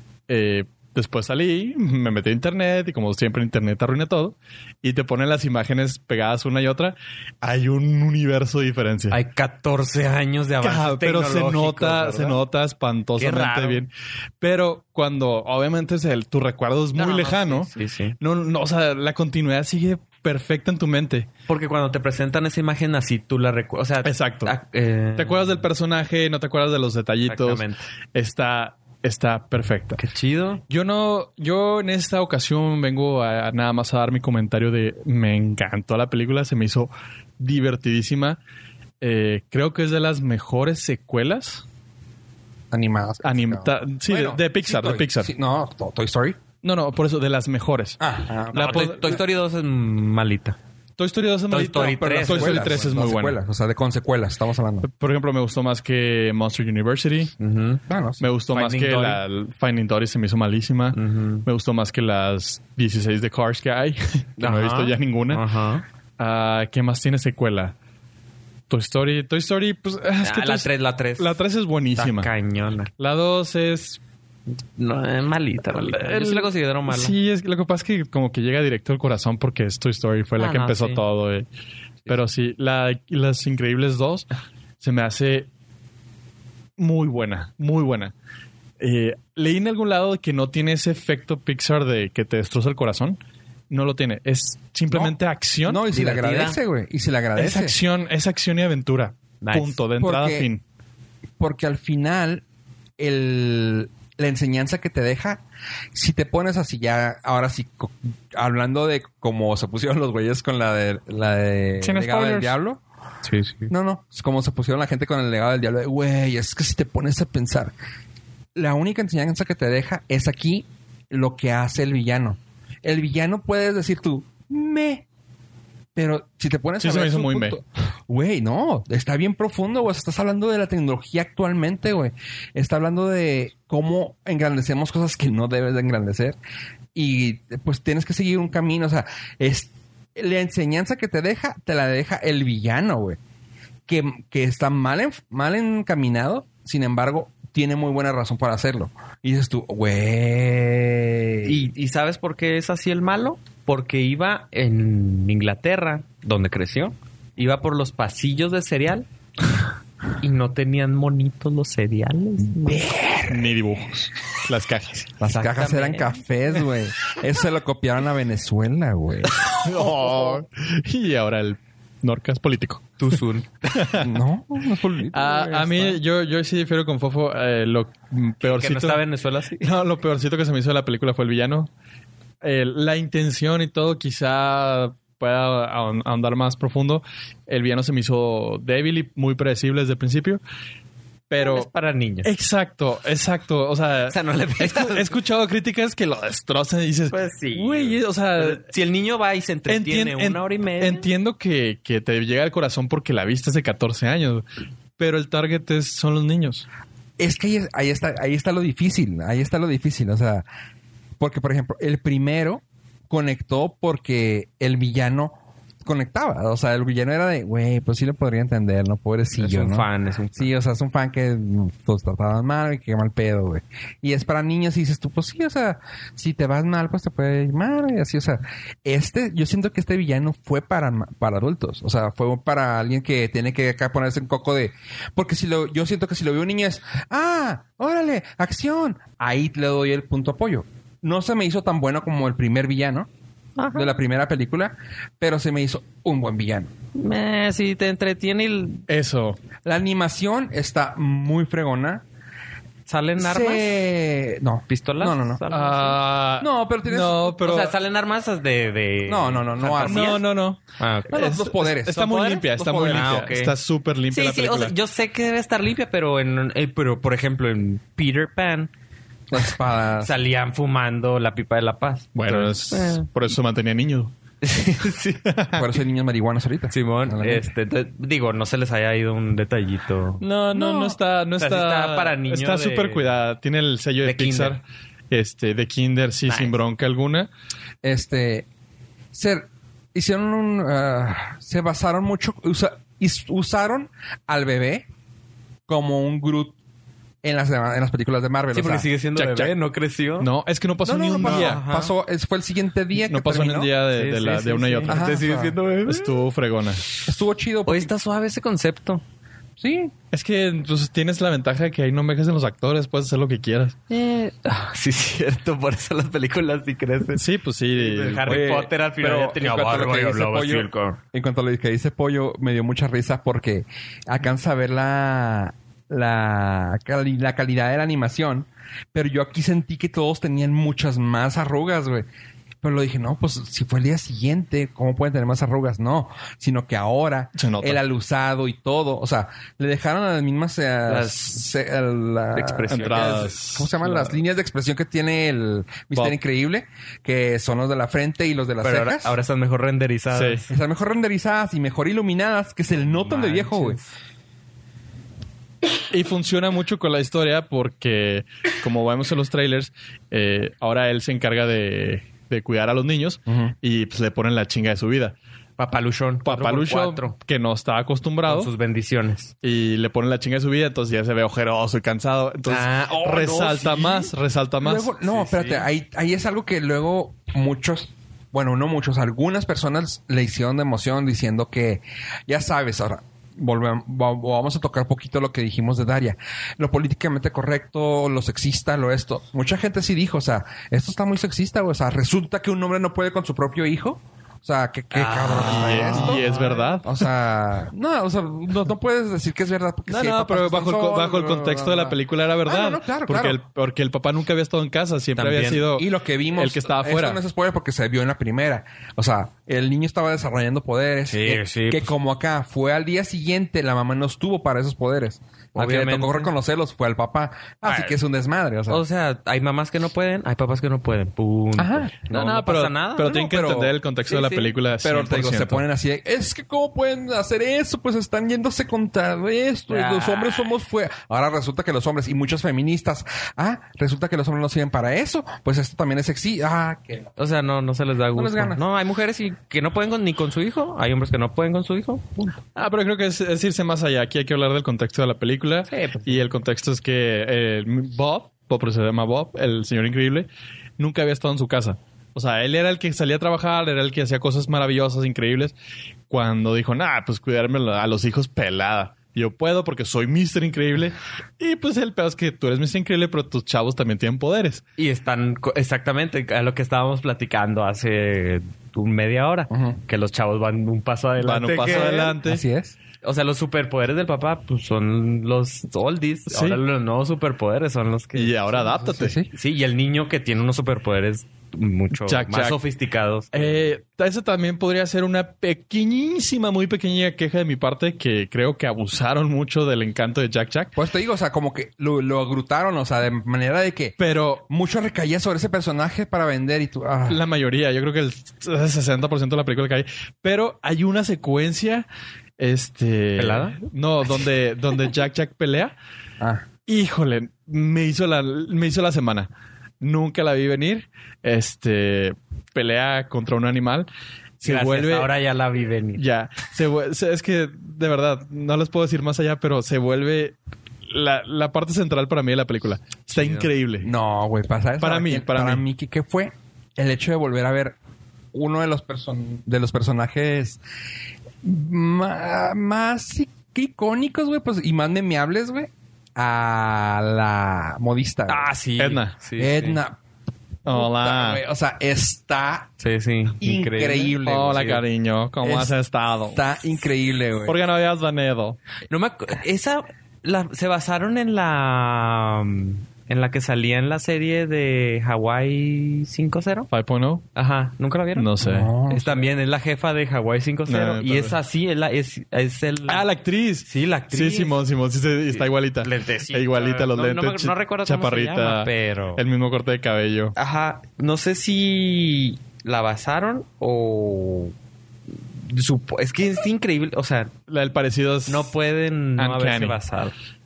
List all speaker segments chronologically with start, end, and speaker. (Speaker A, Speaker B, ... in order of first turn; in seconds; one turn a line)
Speaker A: 0.3-9.2
Speaker B: 9.1-12.4
Speaker A: 10.6-21.3
Speaker B: 13.2-13.8
Speaker B: 17.0-18.2
Speaker B: 21.5-25.6
Speaker A: 24.0-24.5
Speaker A: 25.2-30.0
Speaker B: 27.3-27.9
Speaker B: 30.0-30.6
Speaker A: 30.7-38.4
Speaker A: 39.0-41.6
Speaker C: 42.7-46.4
Speaker A: 43.2-45.3
Speaker A: 46.6-49.2
Speaker C: 48.0-49.0
Speaker B: 48.5-50.6
Speaker A: 51.0-53.4
Speaker B: 51.5-52.9
Speaker C: 52.0-54.9
Speaker A: 54.8-57.3
Speaker B: 57.4-57.8
Speaker C: 57.9-58.2
Speaker A: 58.2-65.4
Speaker B: 58.5-59.2
Speaker B: 60.9-61.5
Speaker B: 64.4-65.8
Speaker A: 66.2-67.7
Speaker A: 68.7-72.3
Speaker B: 70.2-71.4
Speaker B: 72.0-72.9
Speaker A: 73.0-74.0
Speaker B: 74.8-77.2
Speaker A: 75.8-81.5
Speaker B: 80.4-81.0
Speaker A: 82.1-84.3
Speaker A: 84.8-85.5
Speaker A: 86.8-88.1
Speaker A: 88.8-93.2
Speaker A: 93.7-95.8
Speaker C: 95.7-97.8
Speaker B: 95.9-96.6
Speaker A: 97.4-100.6
Speaker B: 99.4-99.8
Speaker C: 100.0-100.5
Speaker C: 101.4-102.4
Speaker C: 103.0-105.4
Speaker C: 105.9-112.8
Speaker A: 111.8-112.5
Speaker B: 113.2-113.7
Speaker C: 113.7-117.7
Speaker C: 118.5-125.1
Speaker C: 126.0-136.4
Speaker A: 126.8-127.6
Speaker C: 136.9-143.2
Speaker C: 143.9-151.6
Speaker B: 151.4-159.1
Speaker B: 160.2-162.9
Speaker C: 162.4-163.5
Speaker A: 163.3-165.1
Speaker C: 165.2-169.4
Speaker B: 165.2-166.2
Speaker A: 169.4-173.2
Speaker B: 169.7-170.4
Speaker B: 173.0-173.9
Speaker A: 173.8-174.1
Speaker C: 174.0-176.0
Speaker A: 175.1-179.0
Speaker B: 178.4-179.7
Speaker A: 179.6-181.7
Speaker A: 182.4-190.4
Speaker A: 191.3-191.7
Speaker B: 191.4-192.3
Speaker A: 192.2-198.7
Speaker B: 194.1-195.2
Speaker B: 197.1-201.1
Speaker A: 199.7-204.4
Speaker A: 205.0-206.7
Speaker C: 207.2-210.4
Speaker C: 211.2-243.1
Speaker B: 219.4-220.5
Speaker B: 243.6-243.9
Speaker C: 243.7-246.7
Speaker B: 246.9-248.8
Speaker A: 248.9-249.4
Speaker C: 249.6-252.0
Speaker B: 252.9-253.7
Speaker C: 253.2-255.4
Speaker B: 254.7-256.0
Speaker A: 255.5-257.8
Speaker C: 256.4-257.3
Speaker B: 257.4-260.2
Speaker C: 259.1-260.2
Speaker A: 259.8-260.6
Speaker B: 260.8-261.4
Speaker C: 261.1-263.0
Speaker A: 261.1-264.7
Speaker B: 261.9-263.6
Speaker B: 264.1-268.7
Speaker C: 269.3-270.1
Speaker B: 270.0-273.1
Speaker A: 272.1-274.1
Speaker B: 274.4-275.2
Speaker A: 275.3-275.7
Speaker C: 275.5-277.4
Speaker B: 276.7-280.2
Speaker A: 280.2-287.3
Speaker C: 280.5-281.0
Speaker B: 281.4-283.1
Speaker B: 284.0-284.6
Speaker B: 286.3-286.5
Speaker C: 287.8-288.5
Speaker C: 289.1-294.9
Speaker C: 295.7-296.6
Speaker C: 297.2-298.9
Speaker B: 298.5-300.3
Speaker A: 299.2-299.5
Speaker A: 300.2-301.6
Speaker C: 300.8-303.7
Speaker B: 301.2-301.9
Speaker A: 303.0-305.2
Speaker B: 303.9-306.2
Speaker C: 304.9-305.6
Speaker A: 305.9-306.8
Speaker C: 307.1-307.9
Speaker B: 307.7-309.0
Speaker C: 309.6-309.9
Speaker A: 310.1-313.8
Speaker B: 313.9-321.0
Speaker A: 317.2-318.3
Speaker C: 318.3-332.1
Speaker C: 332.6-349.2
Speaker A: 337.4-337.8
Speaker B: 340.9-341.5
Speaker B: 342.4-343.3
Speaker A: 342.7-344.0
Speaker B: 348.6-350.5
Speaker A: 350.1-350.4
Speaker C: 350.5-353.8
Speaker B: 352.9-353.9
Speaker A: 355.9-365.1
Speaker C: 363.3-363.5
Speaker B: 365.6-367.1
Speaker A: 366.2-368.5
Speaker B: 368.2-369.3
Speaker A: 369.4-374.9
Speaker B: 372.5-374.1
Speaker C: 374.6-396.3
Speaker B: 375.1-375.7
Speaker B: 394.9-396.8
Speaker A: 395.4-396.9
Speaker C: 396.8-403.4
Speaker A: 399.9-407.2
Speaker B: 405.2-405.6
Speaker C: 405.7-418.8
Speaker B: 411.1-411.9
Speaker B: 415.6-416.3
Speaker B: 417.6-418.0
Speaker B: 418.7-423.2
Speaker C: 421.6-421.9
Speaker A: 422.1-425.6
Speaker C: 423.1-423.8
Speaker B: 424.1-424.5
Speaker C: 424.8-437.1
Speaker B: 429.7-430.5
Speaker B: 437.2-442.4
Speaker C: 438.1-438.6
Speaker A: 442.6-455.5
Speaker B: 445.7-446.2
Speaker A: 456.1-464.6
Speaker B: 464.8-472.2
Speaker C: 469.5-469.8
Speaker A: 471.2-472.4
Speaker C: 472.2-472.8
Speaker B: 473.0-483.6
Speaker A: 476.3-476.6
Speaker A: 478.1-479.2
Speaker C: 478.8-479.3
Speaker A: 481.9-482.6
Speaker A: 483.3-490.7
Speaker C: 490.8-494.0
Speaker A: 494.0-494.4
Speaker C: 494.5-497.2
Speaker A: 497.1-501.9
Speaker A: 502.4-505.7
Speaker B: 503.2-503.6
Speaker C: 506.2-506.5
Speaker A: 506.7-509.3
Speaker A: 509.8-515.1
Speaker B: 514.4-516.0
Speaker A: 516.0-520.4
Speaker A: 520.9-523.9
Speaker B: 523.1-523.5
Speaker C: 523.8-527.8
Speaker A: 524.8-525.6
Speaker C: 528.3-530.6
Speaker C: 531.4-538.5
Speaker B: 538.3-539.8
Speaker A: 538.8-539.1
Speaker C: 539.4-540.0
Speaker A: 540.7-541.4
Speaker C: 540.7-542.7
Speaker B: 542.8-544.2
Speaker C: 543.4-544.8
Speaker A: 544.2-546.4
Speaker C: 545.4-545.7
Speaker C: 546.3-547.6
Speaker A: 547.5-548.6
Speaker B: 548.9-556.7
Speaker A: 556.7-557.2
Speaker B: 557.4-558.3
Speaker A: 558.1-558.7
Speaker C: 558.4-559.3
Speaker B: 558.9-563.0
Speaker A: 560.7-561.4
Speaker A: 562.9-570.3
Speaker B: 563.6-564.6
Speaker B: 565.3-569.2
Speaker B: 570.4-574.5
Speaker B: 575.4-577.3
Speaker A: 577.5-578.5
Speaker B: 578.3-580.1
Speaker A: 579.2-579.8